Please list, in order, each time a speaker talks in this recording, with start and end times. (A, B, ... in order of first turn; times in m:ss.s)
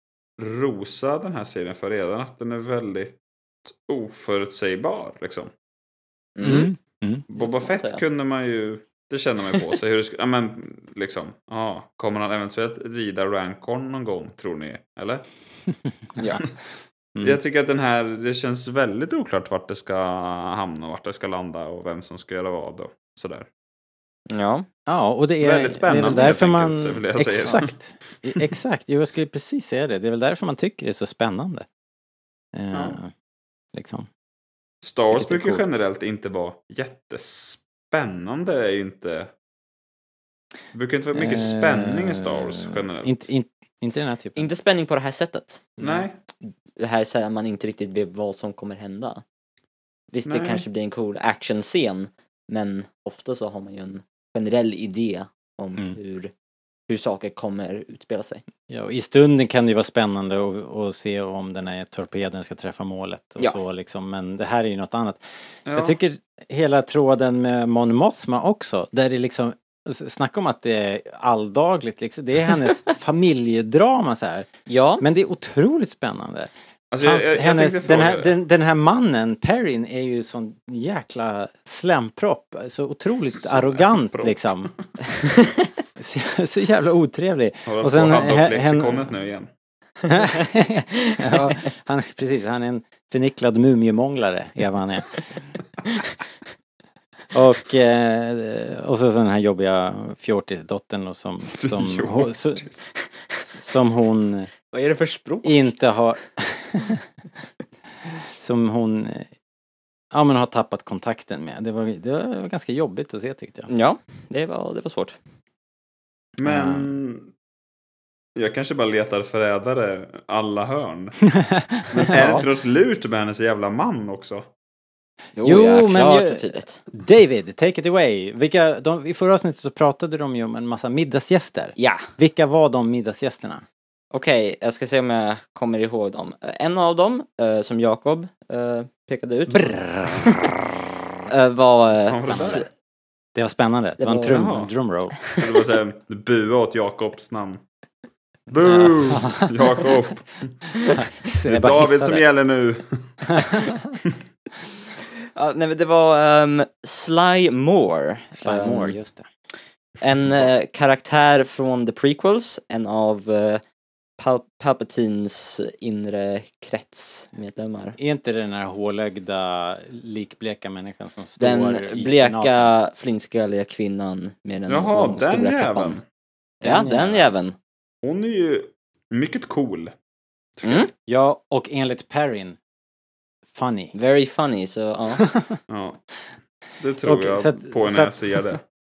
0:00.4-0:05.5 A
0:06.4-0:06.7 B
0:06.4-0:07.2 C
0:07.3-0:15.2 A
0:07.4-0:08.0 B
0:16.2-0:16.4 B
0:17.2-0:17.4 C
0:17.2-0:23.5 A
0:24.3-0:24.7 B
0:24.9-0:31.7 C
0:25.4-0:27.8 A
0:32.6-0:33.1 C
0:33.7-0:34.1 C
0:34.8-0:39.3 A
0:35.1-0:35.8 C
0:40.7-0:43.3 A
0:41.2-0:44.5 C
0:44.4-0:45.8 B
0:45.8-0:46.2 A
0:46.8-0:49.2 B
0:50.1-0:56.3 B
0:50.3-0:50.6 A
0:56.9-0:58.4 B
0:58.7-1:14.5 C
1:05.7-1:06.0 A
1:14.7-1:15.0 B
1:15.0-1:16.5 C
1:16.9-1:18.4 A
1:17.0-1:24.7 C
1:23.4-1:25.0 A
1:26.0-1:29.1 C
1:27.7-1:29.5 A
1:30.1-1:35.1 C
1:37.3-1:42.7 C
1:41.5-1:42.8 A
1:43.5-1:44.5 C
1:44.7-1:45.7 B
1:45.4-1:47.0 C
1:48.4-1:49.3 C
1:50.1-1:53.7 C
1:53.7-1:55.2 B
1:56.4-1:57.3 A
1:56.4-1:56.9 C
1:58.4-2:01.2 A
2:01.4-2:02.4 C
2:01.9-2:04.5 A
2:02.1-2:02.4 B
2:05.4-2:06.8 B
2:05.4-2:13.6 C
2:11.8-2:12.1 B
2:14.1-2:20.5 B
2:19.6-2:20.2 C
2:21.3-2:22.7 B
2:22.0-2:22.6 A
2:22.3-2:22.6 C
2:23.4-2:25.2 C
2:24.0-2:24.5 B
2:24.3-2:24.7 A
2:25.4-2:27.6 A
2:28.5-2:30.5 A
2:28.7-2:29.5 C
2:30.9-2:32.2 C
2:31.4-2:33.6 A
2:33.3-2:33.9 C
2:35.4-2:39.0 B
2:38.4-2:39.3 C
2:40.0-2:43.6 B
2:44.2-2:48.0 B
2:48.0-2:52.7 C
2:51.4-2:56.0 B
2:54.7-2:56.0 A
2:56.6-2:57.3 C
2:56.6-2:57.6 B
2:58.0-2:59.9 A
3:00.6-3:00.9 A
3:00.6-3:00.9 B
3:01.1-3:02.6 C
3:03.5-3:03.9 C
3:03.9-3:05.2 B
3:05.3-3:05.6 C
3:05.7-3:06.0 A
3:06.8-3:08.6 A
3:07.0-3:08.2 C